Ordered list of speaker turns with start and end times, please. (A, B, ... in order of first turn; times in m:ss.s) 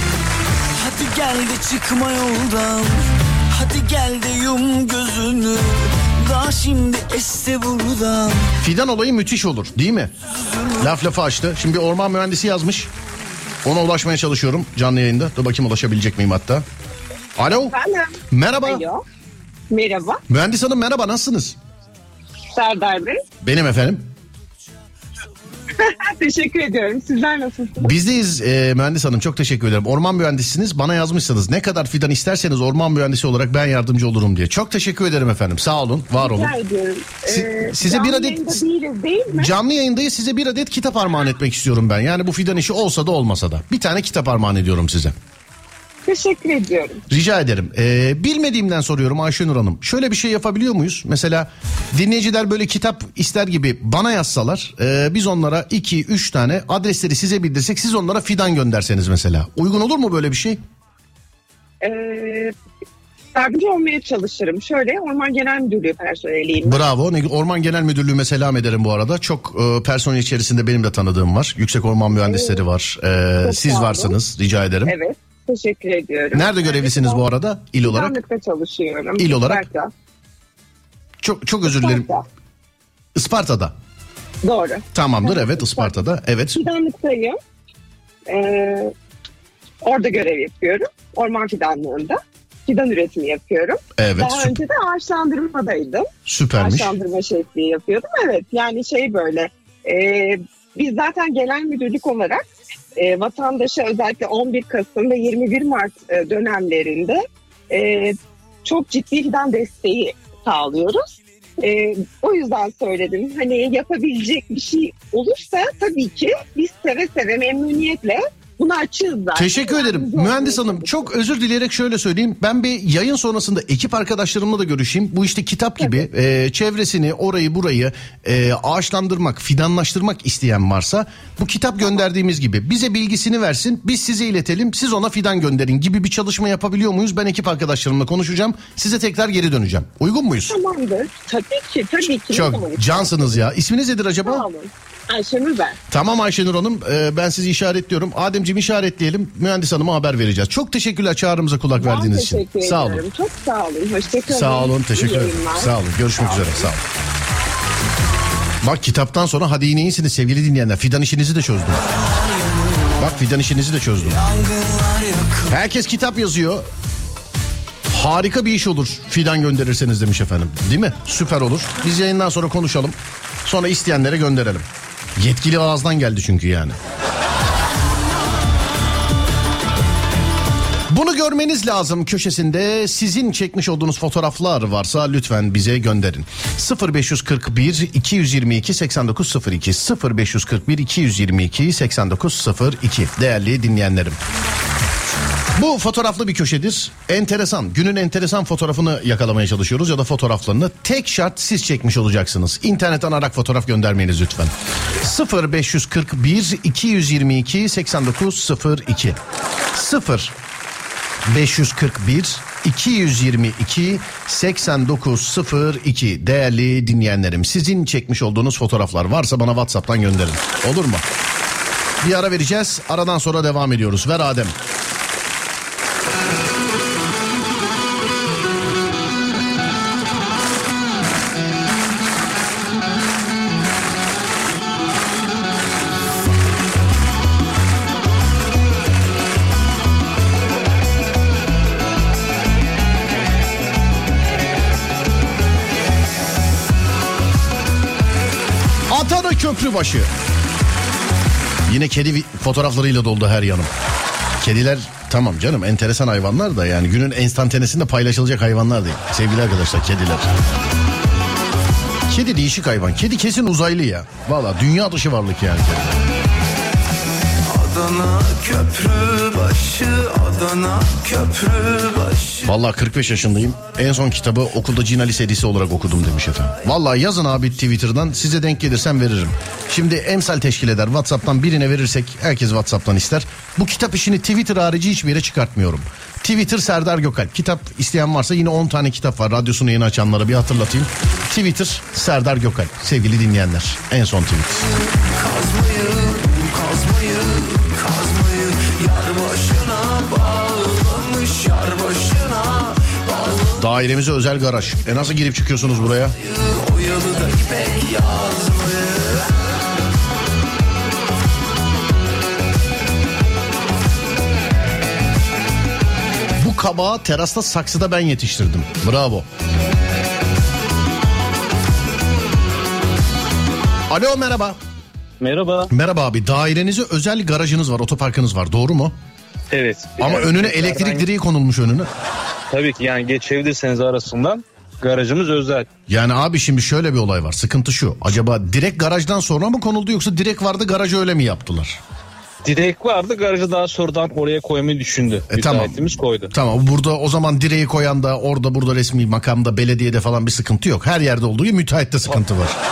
0:00.8-0:03.0 A
0:03.5-0:08.5 A
0:08.6-0:10.1 B
0:10.8-0:12.9 B
0:13.6-0:16.6 B
0:17.4-0:17.8 B
0:17.7-0:19.0 C
0:18.3-0:18.8 B
0:19.7-0:20.2 C
0:20.3-0:21.6 B
0:22.6-0:23.2 C
0:23.4-0:24.1 B
0:25.8-0:27.9 C
0:27.8-0:36.6 B
0:36.2-0:39.5 C
0:37.3-0:38.6 B
0:39.4-0:45.2 B
0:46.0-0:47.0 C
0:47.1-1:00.6 B
1:01.8-1:02.5 C
1:03.4-1:06.8 C
1:06.6-1:15.0 B
1:12.2-1:12.6 C
1:13.4-1:14.1 C
1:14.9-1:17.2 C
1:16.3-1:18.2 B
1:17.8-1:19.9 C
1:19.2-1:19.7 B
1:21.2-1:22.1 B
1:21.7-1:22.2 C
1:23.2-1:23.7 B
1:24.4-1:25.9 C
1:24.9-1:26.6 B
1:26.6-1:27.4 C
1:28.3-1:28.9 C
1:29.8-1:36.1 C
1:34.0-1:34.6 B
1:36.3-1:36.9 B
1:36.6-2:01.0 C
1:59.4-2:20.6 B
2:20.5-2:23.1 C
2:22.3-2:24.5 B
2:24.2-2:25.8 C
2:25.9-2:33.0 B
2:31.8-2:36.6 C
2:34.3-2:36.8 B
2:38.6-2:41.8 B
2:42.0-2:42.9 D
2:43.0-2:44.2 B
2:44.3-2:45.4 D
2:45.5-2:46.7 B
2:47.9-2:54.7 B
2:55.2-2:56.8 B
3:00.9-3:14.2 B
3:15.5-3:29.2 B
3:29.8-3:30.3 B
3:31.3-3:41.0 B
3:42.0-3:44.6 B
4:08.9-4:10.1 B
4:11.7-4:13.7 B
4:14.4-4:20.3 B
4:22.1-4:26.0 B
4:27.5-4:32.4 D
4:32.4-4:54.7 B
4:55.2-5:03.5 D
5:03.6-5:06.2 B
5:06.3-5:09.2 D
5:16.4-5:19.3 B
5:23.9-5:24.6 B
5:25.2-5:25.7 E
5:25.7-5:29.0 B
5:29.5-5:31.1 E
5:30.0-5:31.9 B
5:32.5-5:35.7 E
5:35.9-5:41.8 B
5:42.4-5:46.3 E
5:45.3-5:52.6 B